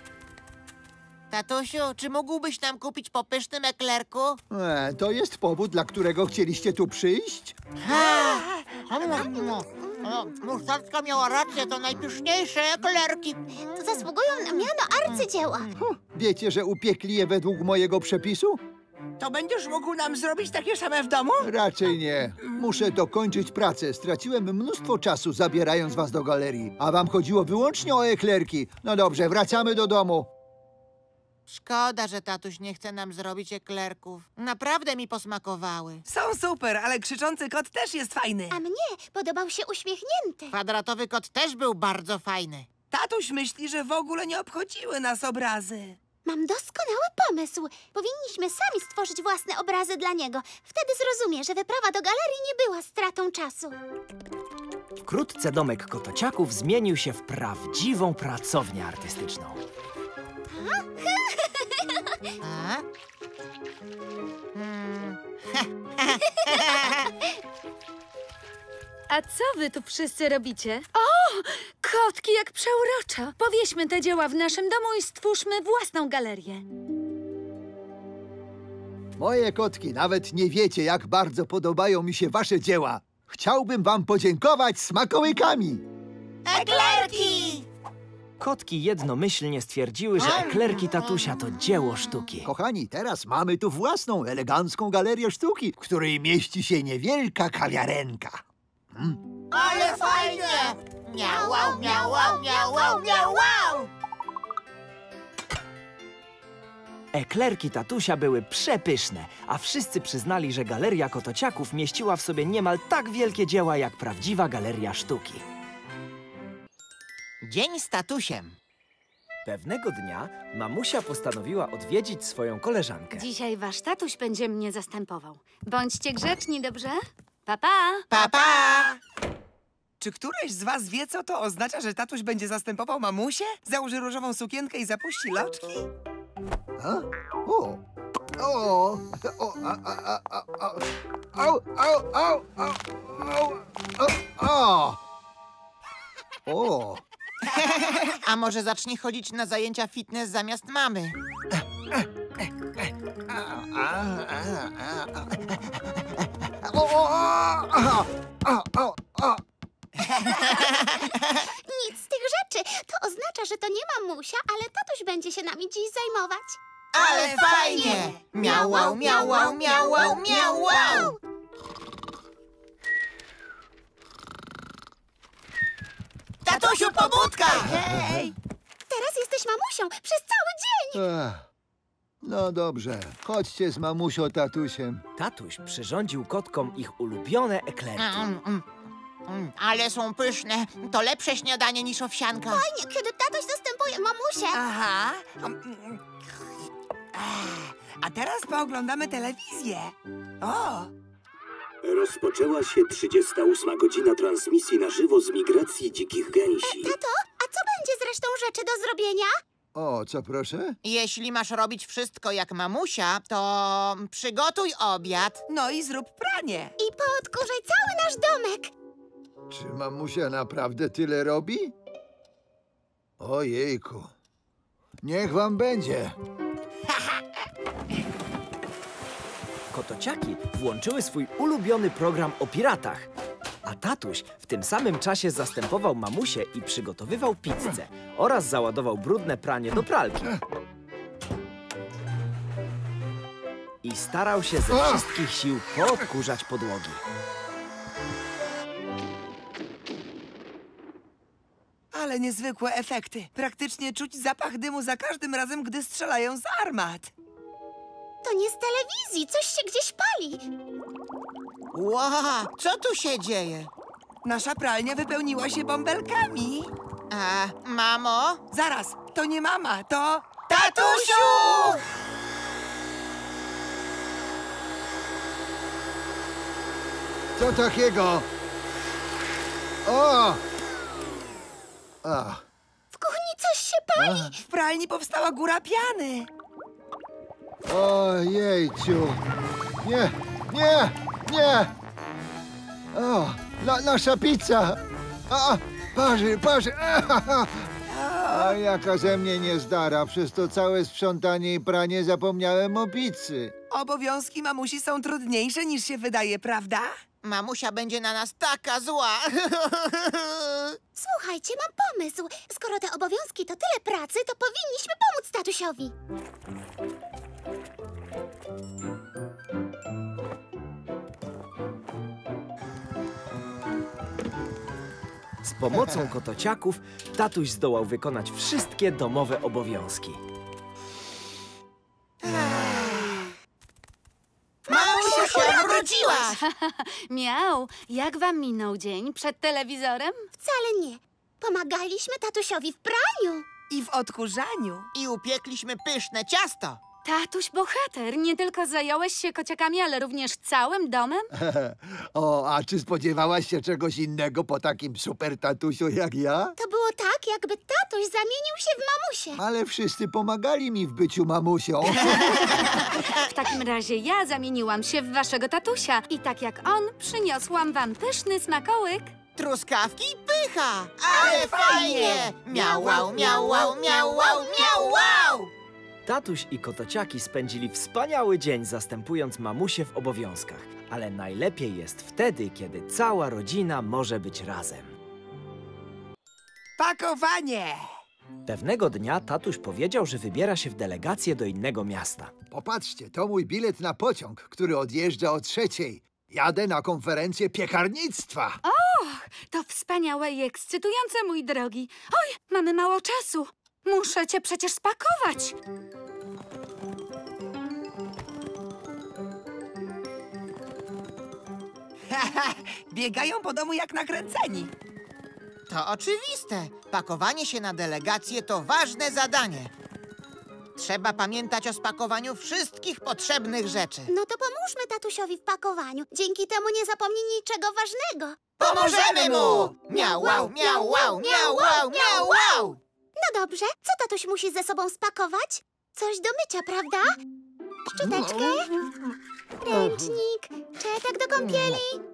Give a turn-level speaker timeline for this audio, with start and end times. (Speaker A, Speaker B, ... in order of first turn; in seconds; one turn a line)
Speaker A: 1.3-4.4
Speaker B: 4.5-7.6
Speaker A: 7.8-15.8
Speaker C: 7.9-8.2
Speaker D: 13.8-15.7
Speaker B: 15.8-18.6
Speaker C: 19.2-21.5
Speaker B: 21.4-30.3
Speaker A: 31.5-36.0
Speaker C: 36.1-38.6
Speaker D: 38.5-40.5
Speaker A: 40.5-42.7
Speaker C: 42.9-46.0
Speaker D: 46.2-53.8
Speaker E: 55.0-59.6
Speaker A: 62.4-62.8
Speaker A: 64.5-67.1
Speaker F: 69.1-76.6
Speaker B: 79.2-85.8
Speaker A: 86.5-87.7
Speaker C: 86.8-87.1
Speaker E: 88.4-92.5
Speaker A: 90.2-91.0
Speaker B: 92.4-99.2
Speaker A: 99.5-103.9
Speaker D: 101.4-103.1
Speaker E: 107.1-115.4
Speaker A: 117.4-118.6
Speaker E: 119.5-123.3
Speaker F: 123.1-128.1
Speaker A: 128.1-129.0
Speaker C: 130.0-135.8
Speaker B: 136.8-137.8
Speaker B: 138.4-145.0
Speaker B: 146.5-147.0
Speaker A: 147.5-151.1
Speaker B: 151.5-159.4
Speaker A: 160.2-161.4
Speaker D: 161.6-166.6
Speaker A: 166.9-171.1
Speaker C: 167.0-168.2
Speaker D: 168.4-171.2
Speaker A: 176.4-177.8
Speaker C: 176.5-178.3
Speaker B: 177.9-178.2
Speaker D: 178.9-181.0
Speaker B: 180.9-181.5
Speaker B: 182.2-185.0
Speaker E: 185.2-188.2
Speaker A: 188.0-188.7
Speaker A: 189.3-192.6
Speaker D: 192.5-194.6
Speaker C: 194.5-196.0
Speaker C: 197.1-200.9
Speaker G: 201.8-207.0
Speaker D: 206.6-209.3
Speaker B: 209.8-210.8
Speaker A: 210.8-215.4
Speaker C: 215.5-216.7
Speaker D: 216.8-218.7
Speaker B: 219.5-221.7
Speaker B: 223.2-224.1
Speaker B: 225.0-226.1
Speaker E: 229.7-233.1
Speaker E: 233.6-240.4
Speaker E: 243.8-247.0
Speaker C: 251.9-257.1
Speaker D: 258.2-260.4
Speaker A: 261.7-263.7
Speaker C: 264.2-266.7
Speaker A: 267.1-268.4
Speaker C: 268.5-271.8
Speaker A: 270.5-271.7
Speaker B: 277.4-278.3
Speaker B: 279.9-280.4
Speaker B: 282.0-282.4
Speaker D: 282.9-284.4
Speaker B: 284.0-284.3
Speaker C: 284.4-286.3
Speaker B: 287.6-289.2
Speaker B: 289.8-291.7
Speaker B: 292.9-297.7
Speaker C: 297.9-298.6
Speaker B: 298.3-303.5
Speaker C: 303.7-306.9
Speaker A: 307.2-310.8
Speaker D: 311.0-315.9
Speaker E: 325.4-330.2
Speaker A: 332.2-333.3
Speaker D: 334.7-336.2
Speaker A: 334.7-336.4
Speaker C: 334.8-336.1
Speaker F: 336.4-340.3
Speaker D: 340.4-343.4
Speaker C: 343.7-344.9
Speaker A: 344.9-346.8
Speaker F: 347.1-351.3
Speaker B: 351.3-356.6
Speaker D: 356.6-359.4
Speaker B: 359.4-362.3
Speaker A: 362.6-363.2
Speaker F: 363.2-369.1
Speaker A: 369.4-375.5
Speaker C: 371.1-373.4
Speaker D: 373.1-374.8
Speaker E: 376.1-385.0
Speaker C: 386.8-387.9
Speaker E: 388.5-392.3
Speaker B: 392.5-398.6
Speaker F: 398.6-405.6
Speaker C: 412.1-414.7
Speaker A: 415.7-419.7
Speaker A: 420.8-424.1
Speaker D: 424.1-437.1
Speaker A: 428.6-432.8
Speaker D: 437.9-438.7
Speaker B: 438.0-438.7
Speaker D: 439.6-442.0